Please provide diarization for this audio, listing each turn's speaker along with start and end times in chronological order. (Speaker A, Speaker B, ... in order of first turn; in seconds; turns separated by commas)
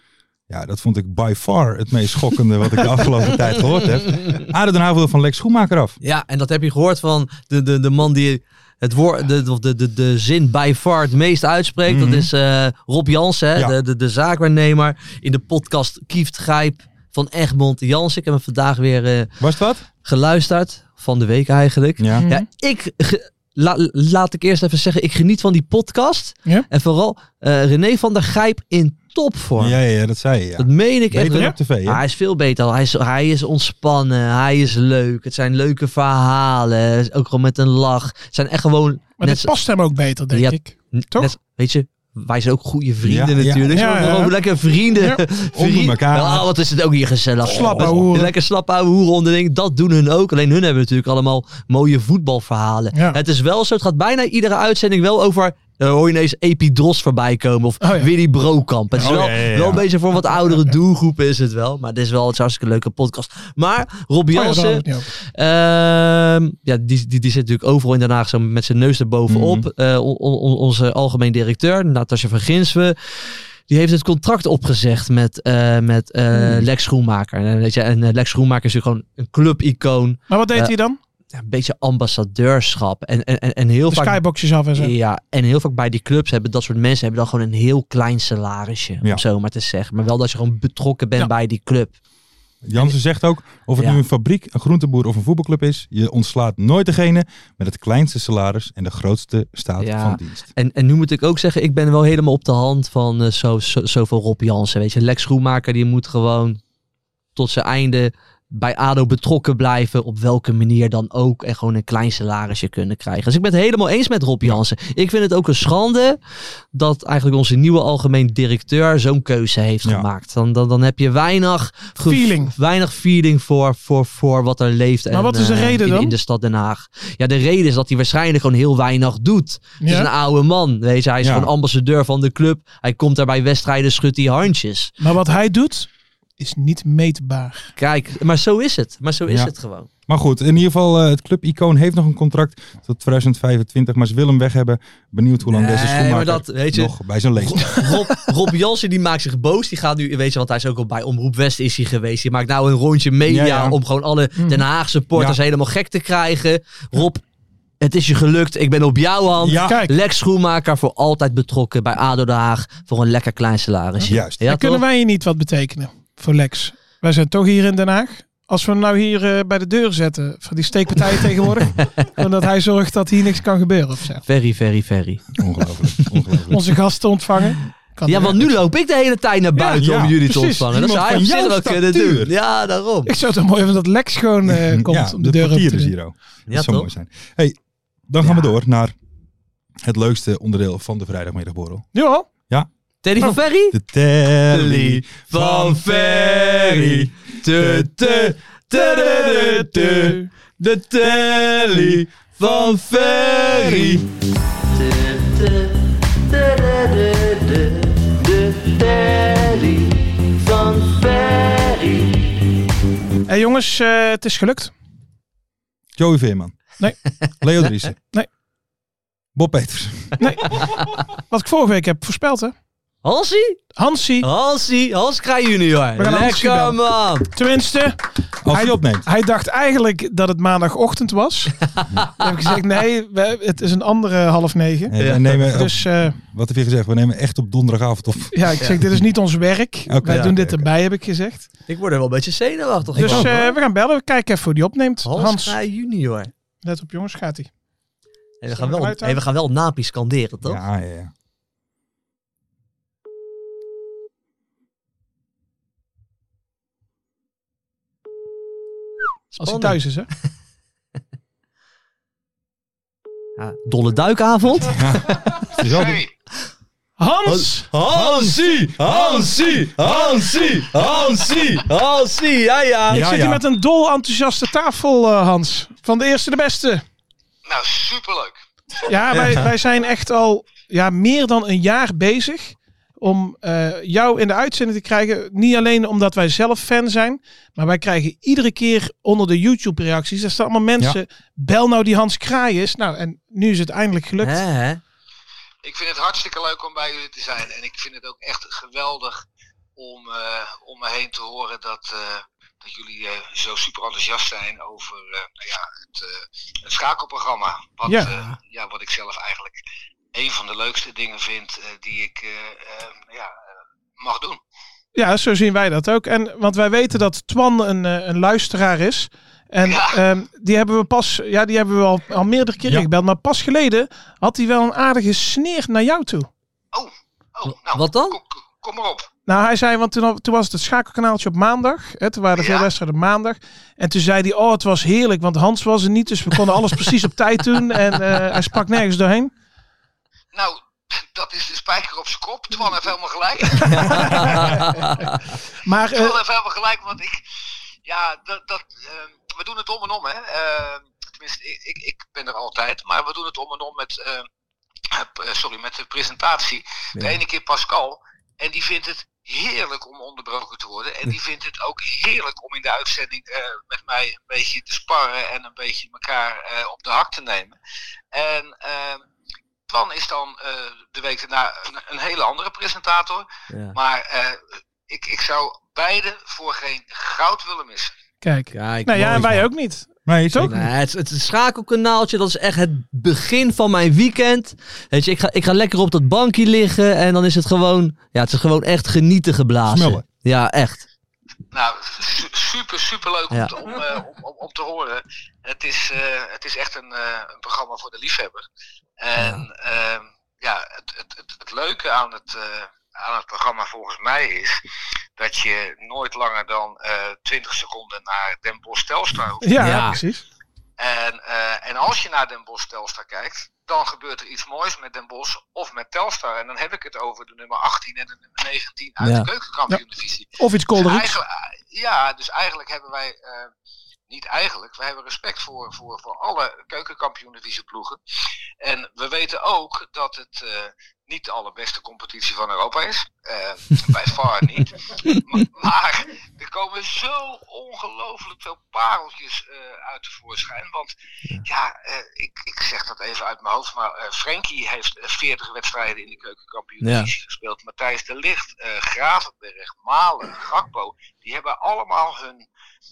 Speaker A: 0.5-6.0, Speaker B: 4.1-4.4, Speaker B: 6.0-19.3, Speaker A: 11.9-12.3, Speaker A: 19.4-19.8, Speaker B: 20.0-29.8, Speaker A: 22.0-22.3, Speaker C: 22.2-22.4, Speaker A: 29.6-32.0, Speaker B: 30.6-39.5, Speaker C: 39.2-41.3, Speaker B: 40.3-73.0, Speaker A: 43.0-44.3, Speaker C: 43.7-44.3, Speaker A: 45.5-46.5, Speaker C: 47.5-48.3, Speaker A: 47.5-48.0, Speaker C: 52.9-53.2, Speaker C: 57.8-58.1, Speaker A: 59.0-59.9, Speaker C: 60.3-60.6, Speaker C: 64.3-65.1, Speaker A: 69.3-69.7, Speaker B: 73.7-80.8, Speaker C: 76.3-76.6, Speaker C: 80.3-81.0, Speaker B: 81.3-84.2, Speaker C: 83.9-84.9, Speaker B: 84.8-91.9, Speaker A: 92.6-100.5, Speaker B: 93.8-94.0, Speaker B: 99.8-106.6, Speaker B: 107.4-116.2, Speaker B: 116.7-134.9, Speaker C: 122.1-122.5, Speaker C: 125.1-126.2, Speaker C: 129.8-130.1, Speaker A: 131.2-131.5, Speaker C: 135.0-137.7, Speaker B: 137.8-139.9, Speaker A: 140.1-147.9, Speaker B: 145.5-157.2, Speaker A: 153.3-153.8, Speaker C: 154.4-154.6, Speaker B: 157.8-164.8, Speaker A: 159.4-159.9, Speaker C: 159.7-159.9, Speaker C: 164.0-174.2, Speaker A: 164.1-164.4, Speaker B: 174.3-175.2, Speaker A: 175.4-176.8, Speaker C: 176.5-178.4, Speaker B: 178.1-183.1, Speaker C: 179.6-180.6, Speaker A: 179.8-182.3, Speaker C: 183.1-185.9, Speaker A: 184.5-187.6, Speaker B: 186.5-186.9, Speaker A: 188.1-188.9, Speaker B: 188.2-188.5, Speaker A: 189.8-191.9, Speaker C: 191.9-192.3, Speaker B: 193.0-193.8, Speaker A: 193.7-198.3, Speaker B: 194.5-204.1, Speaker C: 198.8-200.3, Speaker A: 203.4-204.0, Speaker B: 204.7-212.3, Speaker C: 213.3-214.7, Speaker A: 216.0-216.6, Speaker A: 217.4-218.0, Speaker A: 219.4-220.2, Speaker C: 220.2-220.6, Speaker C: 221.3-222.5, Speaker B: 223.0-223.7, Speaker C: 223.8-224.3, Speaker B: 224.2-227.3, Speaker C: 226.0-236.2, Speaker A: 228.4-229.1, Speaker B: 231.8-232.1, Speaker A: 234.9-239.0, Speaker B: 235.0-235.4, Speaker C: 238.3-241.5, Speaker A: 239.9-240.7, Speaker B: 241.7-243.5, Speaker C: 243.0-245.6, Speaker A: 243.0-243.4, Speaker B: 245.0-246.3, Speaker C: 246.6-247.5, Speaker B: 248.4-250.6, Speaker C: 248.5-249.2, Speaker A: 250.4-251.1, Speaker B: 259.3-259.8, Speaker C: 259.4-260.1, Speaker B: 263.4-265.4, Speaker A: 264.7-266.0, Speaker D: 265.6-266.1, Speaker C: 267.0-267.7, Speaker B: 267.3-273.1, Speaker A: 267.9-269.9, Speaker A: 272.9-273.4, Speaker C: 272.9-276.8, Speaker D: 277.5-278.4, Speaker C: 278.8-294.4, Speaker B: 294.2-294.8, Speaker D: 295.6-299.2, Speaker D: 299.8-309.6, Speaker C: 307.9-308.1, Speaker D: 310.1-313.4, Speaker D: 314.0-314.4, Speaker C: 314.9-326.3, Speaker D: 319.6-320.0, Speaker D: 326.7-329.1, Speaker B: 327.5-328.2, Speaker C: 329.3-339.3, Speaker D: 332.4-332.7, Speaker D: 340.3-344.4, Speaker C: 343.6-345.1, Speaker B: 343.7-345.2, Speaker C: 345.6-346.2, Speaker D: 345.9-347.2, Speaker D: 347.9-354.3, Speaker D: 354.9-367.6, Speaker D: 368.1-369.0, Speaker D: 369.7-377.9, Speaker B: 373.5-373.8, Speaker C: 378.2-380.5, Speaker B: 378.5-379.4, Speaker A: 379.0-379.4, Speaker A: 380.1-380.7, Speaker B: 380.4-390.9, Speaker A: 389.7-390.0, Speaker D: 391.5-398.4, Speaker D: 399.0-404.6, Speaker B: 399.2-399.5, Speaker D: 405.2-409.9, Speaker C: 409.4-410.2, Speaker B: 409.6-410.0, Speaker D: 410.8-423.5, Speaker B: 419.0-419.3, Speaker C: 420.4-421.2, Speaker D: 424.1-428.0, Speaker D: 428.6-440.9, Speaker D: 441.4-452.5, Speaker B: 446.8-447.1